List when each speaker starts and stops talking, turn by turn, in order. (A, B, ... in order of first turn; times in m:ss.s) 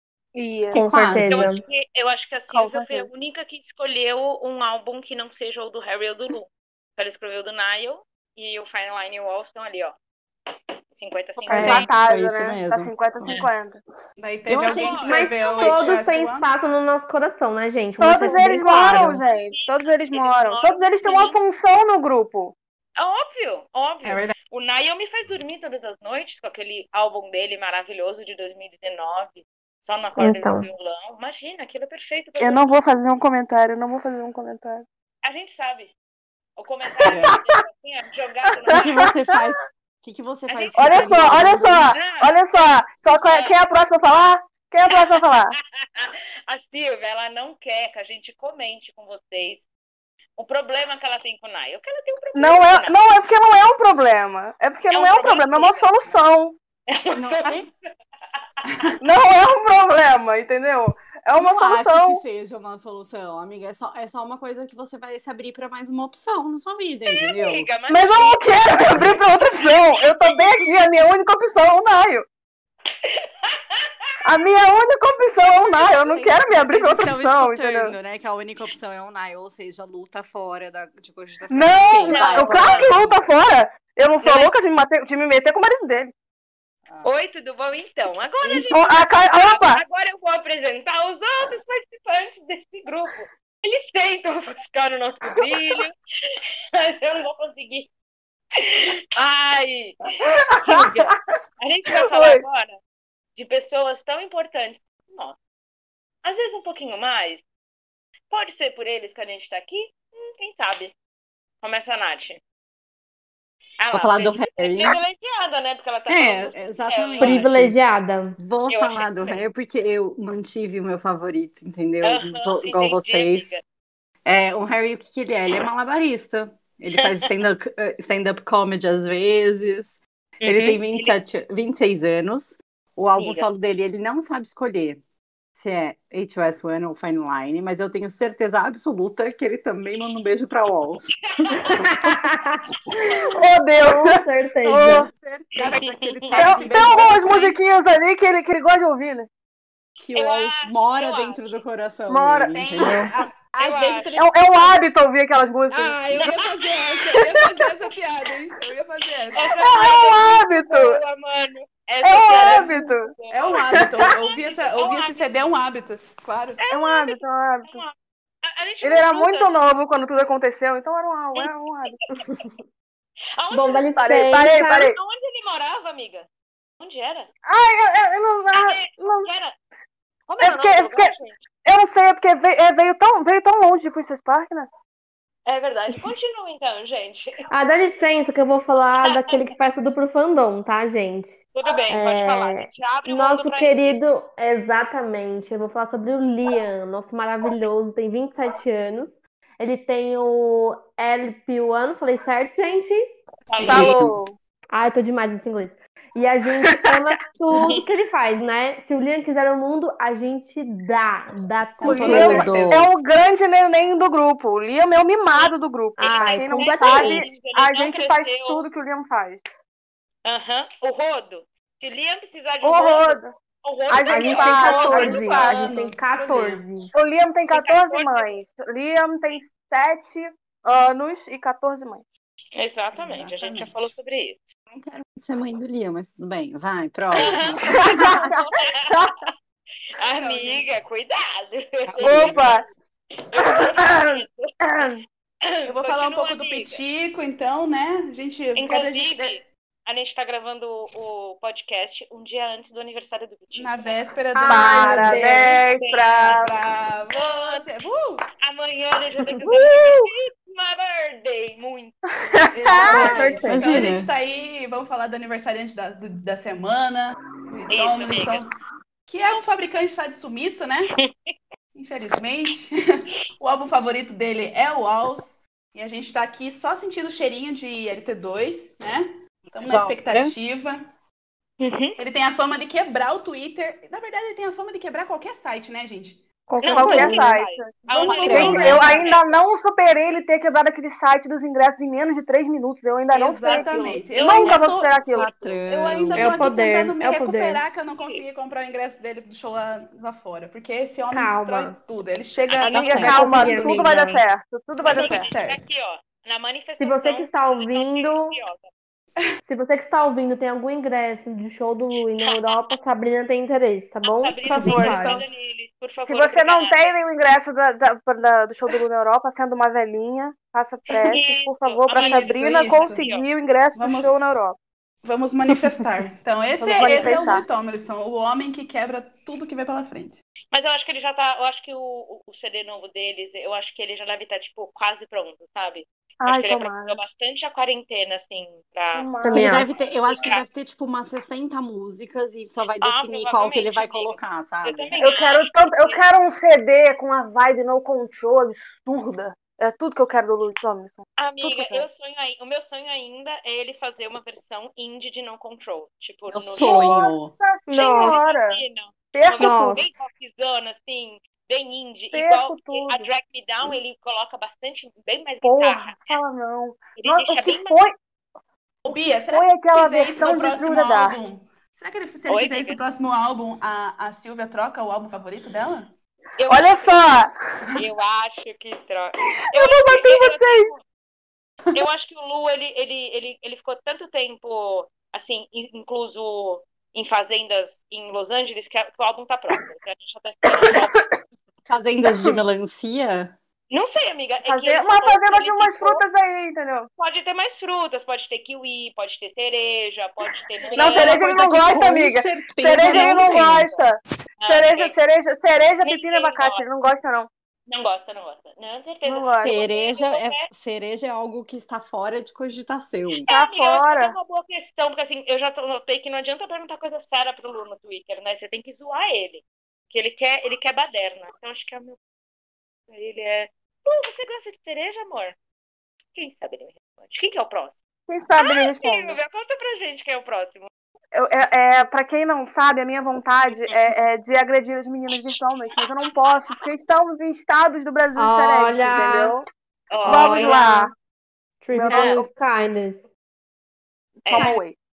0:00.3-0:00.8 A
0:00.7-0:01.5 B
0:00.7-0:01.6 C
0:01.2-0:10.0 D
0:02.5-0:03.1 A
0:10.9-0:11.9 D
0:11.5-0:11.9 C
0:11.5-0:13.8 A
0:11.6-0:13.4 B
0:14.2-0:16.5 E
0:14.5-0:15.9 B
0:14.7-0:15.1 D
0:15.1-0:19.2 C
0:18.0-0:22.5 A
0:18.2-0:21.4 D
0:23.0-0:32.6 D
0:24.0-0:24.4 E
0:30.2-0:30.7 C
0:32.4-0:34.8 A
0:35.2-0:35.9 D
0:36.6-0:39.0 D
0:37.0-0:37.4 B
0:37.1-0:37.4 A
0:38.7-0:41.9 B
0:40.5-0:42.3 D
0:40.7-0:45.5 A
0:43.1-0:43.5 D
0:44.9-0:49.7 D
0:50.4-0:53.0 D
0:52.3-0:56.6 A
0:54.9-0:56.1 D
0:56.9-0:57.7 D
0:57.1-0:57.7 B
0:58.6-0:58.9 D
0:59.0-1:02.2 A
1:01.3-1:07.7 B
1:07.1-1:09.0 D
1:07.9-1:12.2 A
1:10.2-1:10.5 D
1:13.0-1:13.9 D
1:14.2-1:18.0 A
1:15.6-1:23.2 B
1:21.5-1:26.1 A
1:22.1-1:22.9 D
1:24.2-1:24.5 D
1:27.0-1:35.9 D
1:28.7-1:29.8 A
1:36.8-1:37.9 D
1:38.6-1:42.8 D
1:40.2-1:41.0 A
1:42.0-1:42.4 A
1:43.4-1:45.4 D
1:46.2-1:47.4 D
1:48.3-1:50.9 D
1:51.6-1:52.4 D
1:53.8-1:57.4 D
1:53.9-1:55.0 B
1:56.1-1:57.8 B
1:57.2-1:58.4 C
1:58.4-2:03.6 B
1:58.7-1:59.4 D
2:02.0-2:03.6 D
2:04.2-2:15.0 B
2:07.0-2:07.3 D
2:10.4-2:11.1 D
2:13.2-2:13.4 D
2:15.5-2:22.2 B
2:21.4-2:21.8 D
2:21.9-2:25.1 C
2:23.2-2:25.1 A
2:24.8-2:27.1 B
2:25.8-2:26.4 D
2:26.3-2:27.5 E
2:26.4-2:29.3 A
2:30.0-2:33.1 B
2:30.1-2:31.6 D
2:32.1-2:33.0 A
2:32.5-2:34.8 E
2:33.6-2:34.1 D
2:34.2-2:36.3 A
2:35.7-2:39.5 E
2:36.2-2:36.9 D
2:39.3-2:45.3 D
2:39.6-2:41.0 A
2:42.0-2:43.1 A
2:42.2-2:42.7 E
2:43.3-2:46.6 E
2:46.6-2:49.5 D
2:46.7-2:47.8 A
2:48.8-2:52.0 A
2:51.3-2:52.0 D
2:53.4-2:53.9 D
2:53.5-2:54.9 C
2:53.9-2:55.0 A
2:54.8-2:56.3 D
2:56.8-2:57.3 D
2:57.4-2:59.3 A
2:58.5-2:59.5 D
3:00.3-3:01.4 D
3:00.4-3:01.1 A
3:01.6-3:04.7 A
3:05.4-3:07.4 D
3:07.5-3:23.0 C
3:09.0-3:09.3 D
3:11.5-3:14.0 D
3:23.5-3:24.0 D
3:23.5-3:23.9 E
3:23.6-3:24.3 A
3:23.7-3:24.1 B
3:24.7-3:32.5 C
3:31.8-3:32.7 E
3:31.8-3:39.4 A
3:31.9-3:32.9 B
3:35.3-3:38.6 D
3:36.0-3:37.3 C
3:40.2-3:45.5 D
3:42.6-3:43.3 A
3:43.9-3:45.7 A
3:44.1-3:46.9 C
3:44.5-3:46.7 E
3:46.9-3:52.0 A
3:47.5-3:48.4 D
3:52.5-3:54.5 D
3:52.9-3:53.9 E
3:54.7-3:57.8 B
3:57.1-3:59.3 D
3:57.8-3:59.2 A
4:00.0-4:02.6 D
4:00.1-4:00.7 E
4:01.9-4:02.4 B
4:02.0-4:02.6 A
4:03.3-4:04.9 D
4:03.4-4:04.1 A
4:04.6-4:05.0 A
4:05.4-4:06.8 D
4:05.6-4:09.4 E
4:08.5-4:14.2 D
4:13.5-4:15.5 E
4:14.3-4:15.6 C
4:14.5-4:16.5 A
4:15.3-4:16.5 D
4:16.3-4:18.3 E
4:17.1-4:17.7 D
4:18.4-4:23.4 D
4:19.4-4:20.1 A
4:22.4-4:23.2 A
4:22.5-4:28.5 E
4:22.8-4:24.1 B
4:23.0-4:23.7 C
4:27.7-4:28.4 D
4:29.0-4:30.9 E
4:31.0-4:31.3 D
4:31.7-4:32.7 E
4:33.4-4:40.8 E
4:39.6-4:40.3 B
4:41.6-4:42.0 D
4:42.0-4:46.2 E
4:46.5-4:47.3 C
4:46.6-4:49.4 D
4:46.7-4:55.3 A
4:47.8-4:49.2 E
4:48.2-4:49.0 B
4:53.1-5:03.8 E
4:54.1-4:54.6 D
4:55.1-4:56.4 B
4:56.2-4:57.6 C
5:01.1-5:01.8 C
5:02.5-5:02.8 D
5:02.6-5:05.3 A
5:02.7-5:03.3 B
5:03.0-5:04.2 C
5:04.8-5:08.7 D
5:04.8-5:05.6 E
5:06.8-5:08.4 C
5:09.4-5:15.2 C
5:12.2-5:12.7 D
5:14.0-5:16.9 D
5:14.4-5:15.2 E
5:16.0-5:24.6 A
5:20.9-5:23.2 D
5:21.9-5:23.0 E
5:23.7-5:24.2 E
5:25.0-5:30.2 E
5:26.6-5:27.4 A
5:30.5-5:39.1 D
5:36.2-5:37.0 A
5:38.9-5:39.8 A
5:39.2-5:39.8 C
5:39.3-5:45.0 B
5:39.9-5:40.4 D
5:42.8-5:46.0 D
5:45.0-5:51.8 A
5:51.2-5:57.0 D
5:56.3-5:57.3 B
5:56.6-5:58.6 A
5:57.7-5:58.2 C
5:57.7-6:06.2 D
5:59.1-5:59.8 A
5:59.4-5:59.9 C
6:02.1-6:03.1 A
6:05.4-6:07.9 A
6:07.0-6:07.8 D
6:08.8-6:15.9 E
6:09.3-6:11.2 A
6:12.3-6:12.8 D
6:16.4-6:16.9 D
6:16.5-6:17.3 A
6:17.8-6:20.8 D
6:19.5-6:20.7 A
6:21.7-6:31.0 D
6:31.6-6:33.3 B
6:33.7-6:36.0 D
6:34.4-6:36.9 A
6:37.0-6:41.3 D
6:40.6-6:43.7 B
6:40.7-6:47.3 A
6:42.8-6:43.8 D
6:44.4-6:44.9 D
6:45.8-6:46.6 D
6:47.7-6:50.4 D
6:49.0-6:49.6 A
6:49.4-6:53.3 B
6:53.3-7:02.0 D
6:53.3-6:54.2 A
7:02.9-7:05.4 D
7:06.1-7:07.8 D
7:08.1-7:09.2 A
7:08.4-7:10.7 D
7:11.1-7:19.4 A
7:18.2-7:19.4 C
7:19.9-7:20.6 D
7:20.0-7:20.9 C
7:20.0-7:20.9 A
7:21.6-7:23.1 C
7:21.7-7:22.3 A
7:21.9-7:22.2 D
7:24.2-7:24.6 D
7:24.3-7:24.8 A